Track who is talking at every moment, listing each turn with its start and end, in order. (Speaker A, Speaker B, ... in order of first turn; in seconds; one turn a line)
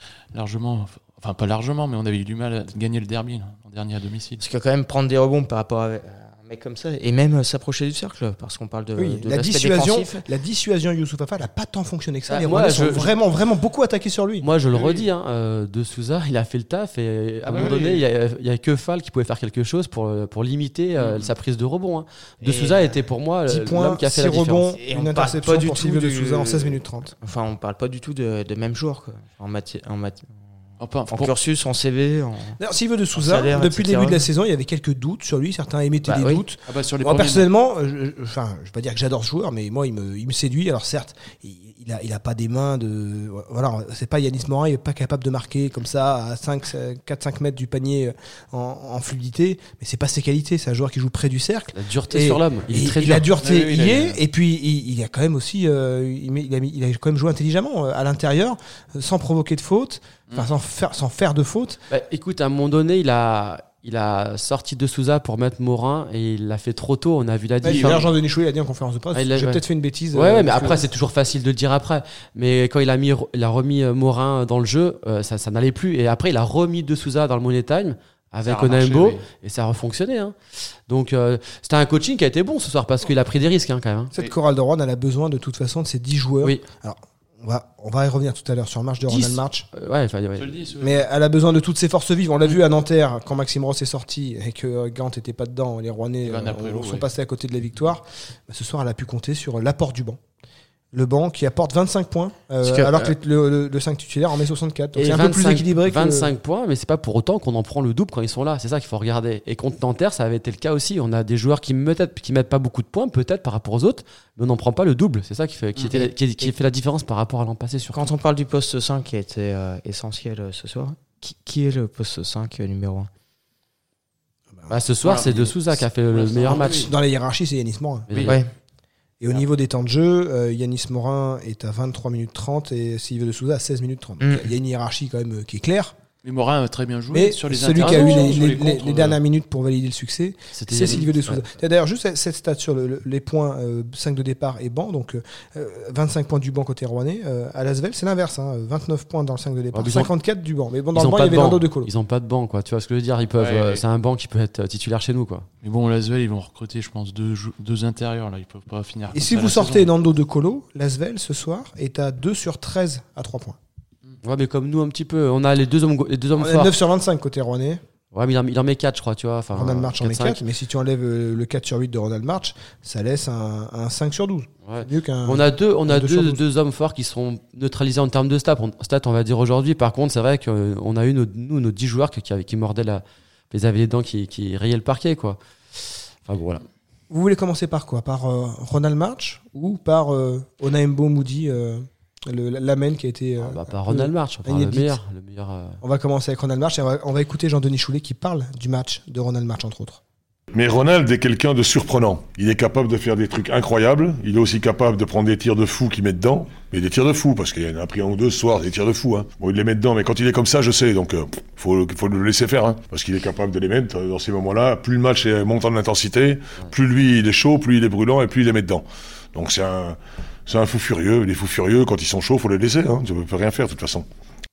Speaker A: 0.3-4.4
Speaker B: 4.4-10.2
Speaker C: 8.9-14.5
Speaker D: 12.3-13.1
Speaker D: 14.4-24.7
Speaker A: 14.7-15.0
Speaker A: 17.4-18.0
Speaker A: 21.0-21.3
Speaker B: 22.4-23.0
Speaker C: 23.5-27.1
Speaker B: 24.8-30.3
Speaker A: 30.8-31.3
Speaker B: 31.1-32.6
Speaker C: 32.6-61.8
Speaker B: 33.1-34.2
Speaker B: 36.0-36.4
Speaker A: 36.6-37.5
Speaker D: 51.7-53.3
Speaker A: 53.3-54.2
Speaker D: 61.9-68.0
Speaker C: 67.6-70.8
Speaker A: 67.6-68.0
Speaker D: 69.1-80.3
Speaker A: 78.4-79.2
Speaker D: 80.9-84.1
Speaker C: 84.1-89.7
Speaker D: 89.1-90.5
Speaker A: 90.4-91.1
Speaker C: 90.8-100.2
Speaker A: 96.2-97.1
Speaker C: 100.9-106.3
Speaker B: 102.6-103.1
Speaker D: 105.0-118.0
Speaker B: 115.9-116.5
Speaker B: 117.9-123.1
Speaker D: 124.7-126.9
Speaker A: 125.0-126.9
Speaker C: 126.5-128.2
Speaker D: 128.1-128.4
Speaker B: 128.2-128.5
Speaker C: 129.2-135.9
Speaker B: 134.2-134.5
Speaker A: 136.2-139.2
Speaker C: 137.1-151.9
Speaker D: 137.8-138.4
Speaker D: 140.5-141.4
Speaker D: 149.7-150.1
Speaker D: 150.9-155.4
Speaker A: 153.4-153.8
Speaker A: 155.6-159.9
Speaker C: 159.1-163.6
Speaker D: 164.2-166.7
Speaker C: 166.4-167.8
Speaker D: 168.1-170.4
Speaker C: 169.5-176.4
Speaker D: 174.7-186.6
Speaker C: 187.1-195.0
Speaker D: 193.4-195.8
Speaker C: 195.8-200.0
Speaker E: 200.5-224.1